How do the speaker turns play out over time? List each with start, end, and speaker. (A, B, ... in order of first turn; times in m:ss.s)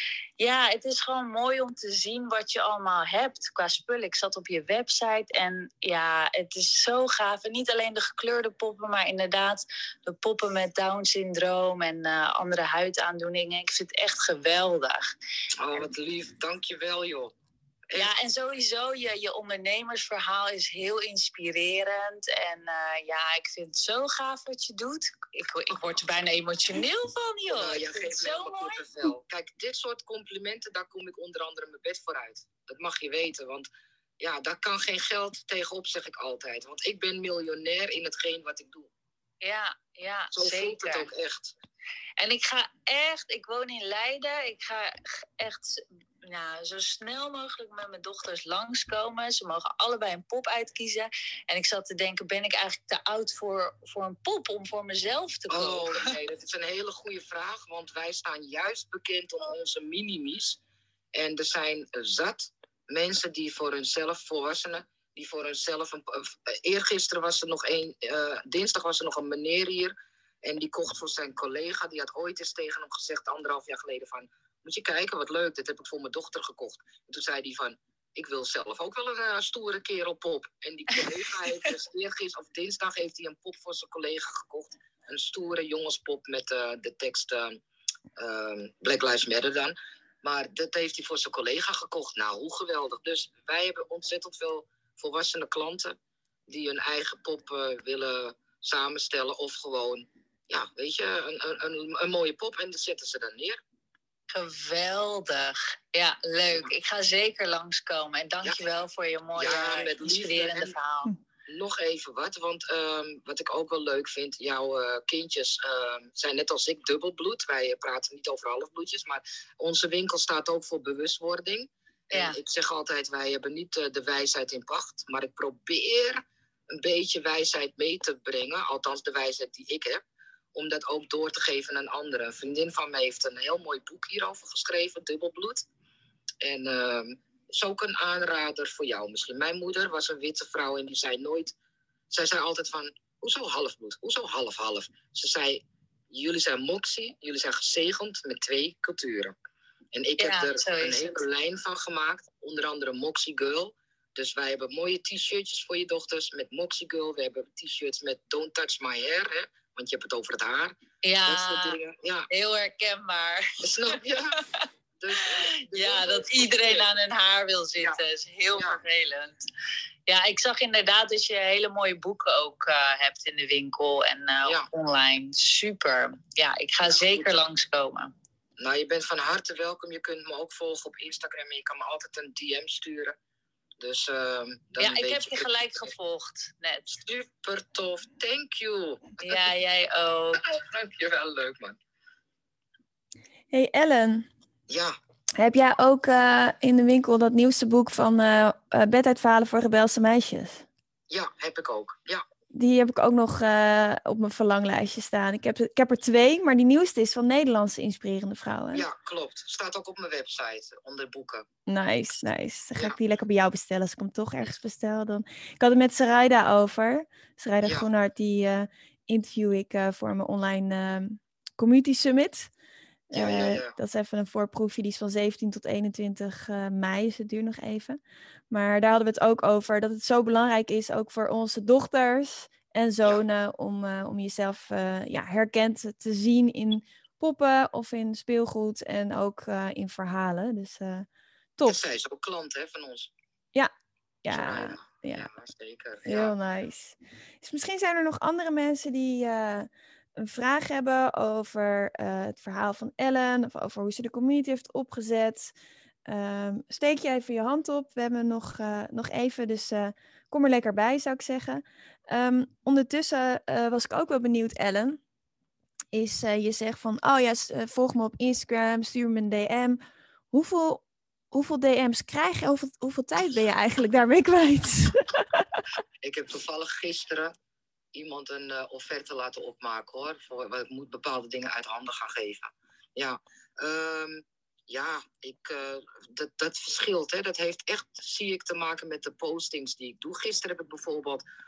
0:00.4-0:15.0 A
0:15.6-0:17.3 B
0:18.0-0:29.1 A
0:27.5-0:33.7 B
0:34.2-0:38.9 B
0:39.4-0:41.1 A
0:40.3-0:41.5 B
0:42.2-0:56.1 A
0:55.5-1:00.6 B
1:01.1-1:27.6 B
1:28.2-1:36.0 B
1:36.5-1:43.6 B
1:44.3-1:51.1 A
1:49.4-1:50.7 B
1:51.5-2:10.0 B
2:10.5-2:15.7 B
2:16.4-2:21.5 B
2:22.1-2:29.3 B
2:29.9-2:42.3 B
2:30.2-2:31.2 A
2:41.0-2:41.8 A
2:42.3-2:43.5 A
2:43.6-2:44.4 B
2:45.0-2:46.9 B
2:45.7-2:49.4 A
2:48.5-2:48.8 B
2:50.0-2:58.1 A
2:56.8-2:57.4 B
2:58.6-3:03.2 B
3:03.8-3:05.9 B
3:04.8-3:06.9 A
3:06.9-3:09.5 B
3:09.2-3:10.4 A
3:10.4-3:11.8 B
3:13.5-3:14.3 C
3:14.7-3:15.0 B
3:15.4-3:20.6 C
3:21.1-3:22.2 B
3:22.5-3:28.8 C
3:28.7-3:31.4 B
3:31.7-3:42.5 C
3:37.6-3:37.9 B
3:43.1-3:48.0 C
3:43.1-3:43.7 B
3:48.5-4:01.8 C
4:01.6-4:03.1 B
4:04.2-4:05.3 C
4:04.3-4:06.3 B
4:06.0-4:15.5 C
4:16.0-4:25.0 C
4:25.9-4:29.8 C
4:30.3-4:35.6 C
4:36.0-4:37.3 B
4:37.9-4:51.2 B